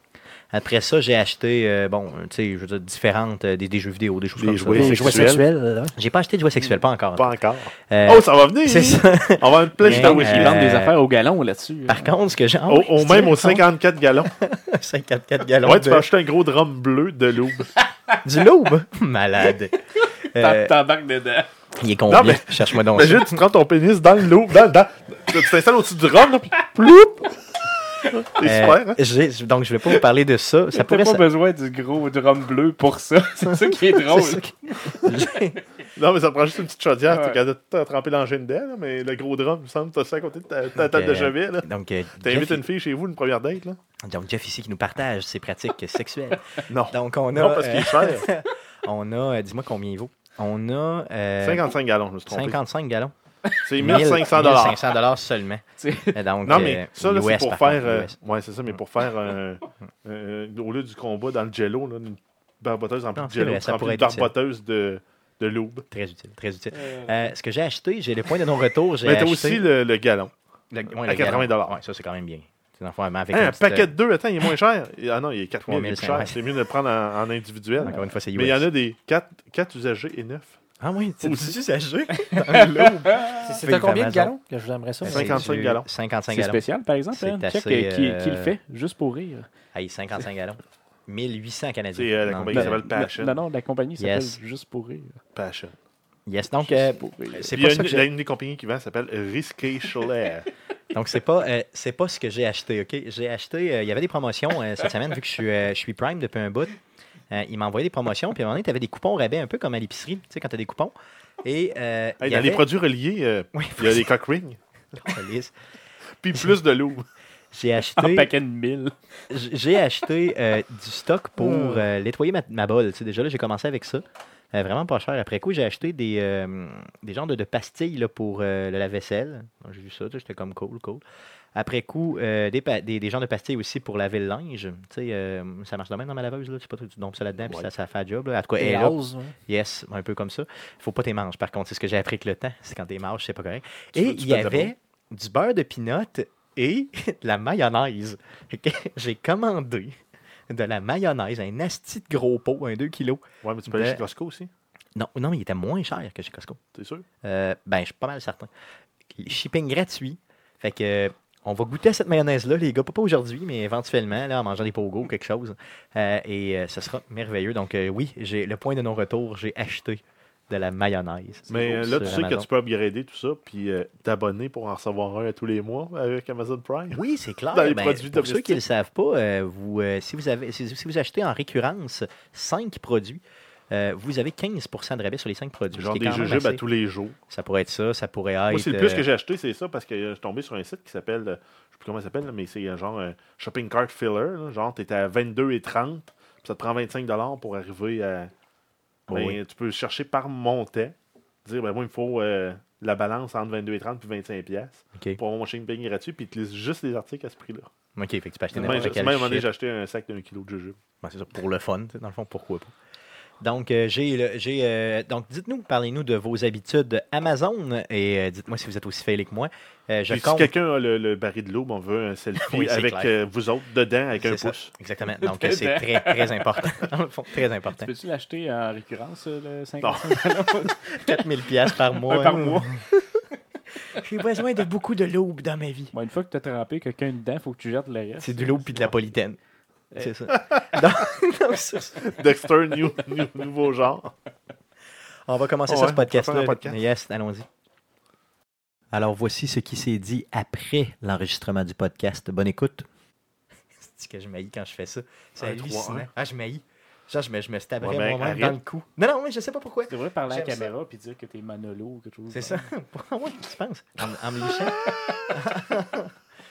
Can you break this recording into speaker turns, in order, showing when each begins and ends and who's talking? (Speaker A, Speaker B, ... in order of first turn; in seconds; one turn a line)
Speaker A: 0.5-5.3
Speaker B: 4.4-5.5
Speaker C: 4.7-5.9
Speaker A: 6.0-7.3
Speaker B: 7.1-10.6
Speaker A: 7.9-10.9
Speaker D: 9.8-12.1
Speaker A: 11.9-13.7
Speaker B: 12.7-14.3
Speaker A: 14.4-16.1
Speaker B: 15.6-17.7
Speaker A: 18.2-20.8
Speaker D: 20.0-21.5
Speaker A: 21.8-23.4
Speaker B: 22.1-27.2
Speaker B: 28.2-29.0
Speaker A: 28.4-31.2
Speaker D: 30.7-35.3
Speaker A: 33.4-35.6
Speaker B: 35.9-41.7
Speaker D: 37.1-37.4
Speaker A: 40.8-42.6
Speaker B: 42.2-43.8
Speaker A: 44.0-51.7
Speaker B: 46.7-48.3
Speaker B: 51.4-52.6
Speaker A: 52.3-53.1
Speaker B: 53.6-54.9
Speaker A: 53.8-58.1
Speaker D: 55.8-56.5
Speaker B: 56.4-65.8
Speaker A: 63.1-64.3
Speaker A: 65.9-69.7
Speaker B: 69.0-70.3
Speaker A: 70.7-73.9
Speaker B: 71.0-71.8
Speaker B: 73.3-80.6
Speaker A: 75.7-76.4
Speaker A: 77.8-78.7
Speaker A: 80.8-84.3
Speaker B: 81.2-81.5
Speaker D: 82.4-83.3
Speaker C: 83.4-85.4
Speaker A: 85.0-88.5
Speaker B: 85.1-85.8
Speaker D: 86.3-89.5
Speaker A: 89.7-92.8
Speaker B: 91.9-93.4
Speaker D: 92.5-95.2
Speaker A: 94.0-94.4
Speaker B: 95.3-95.7
Speaker A: 96.3-98.1
Speaker D: 96.6-97.6
Speaker B: 97.5-100.5
Speaker A: 100.9-106.8
Speaker A: 107.3-112.6
Speaker B: 112.2-114.6
Speaker A: 113.5-114.0
Speaker A: 115.0-115.5
Speaker B: 116.2-117.0
Speaker A: 117.5-118.3
Speaker D: 118.0-118.9
Speaker A: 119.3-131.0
Speaker B: 121.4-121.8
Speaker A: 131.5-150.0
Speaker B: 137.4-137.7
Speaker C: 138.6-139.3
Speaker B: 143.9-144.7
Speaker A: 150.5-154.0
Speaker B: 153.4-154.5
Speaker A: 154.9-156.6
Speaker B: 156.7-157.0
Speaker A: 157.2-158.5
Speaker A: 159.2-172.4
Speaker B: 171.5-177.0
Speaker D: 171.5-172.2
Speaker A: 176.9-186.6
Speaker B: 177.5-178.6
Speaker B: 185.7-187.2
Speaker A: 187.3-189.0
Speaker B: 188.5-198.3
Speaker A: 199.1-199.4
Speaker B: 199.1-200.9
Speaker B: 201.4-207.7
Speaker A: 207.9-209.5
Speaker B: 208.5-210.8
Speaker A: 211.0-212.7
Speaker A: 213.4-220.5
Speaker B: 220.1-224.7
Speaker A: 222.3-223.1
Speaker A: 224.2-227.9
Speaker D: 225.1-226.7
Speaker D: 227.7-232.8
Speaker B: 229.8-230.2
Speaker A: 230.7-233.0
Speaker A: 233.9-235.9
Speaker D: 235.9-238.9
Speaker A: 238.2-239.4
Speaker A: 239.9-242.1
Speaker B: 242.0-244.1
Speaker A: 245.3-247.4
Speaker B: 245.7-246.8
Speaker A: 248.9-252.8
Speaker A: 253.8-260.7
Speaker B: 255.4-256.1
Speaker B: 257.8-258.6
Speaker D: 259.9-262.7
Speaker A: 262.3-266.1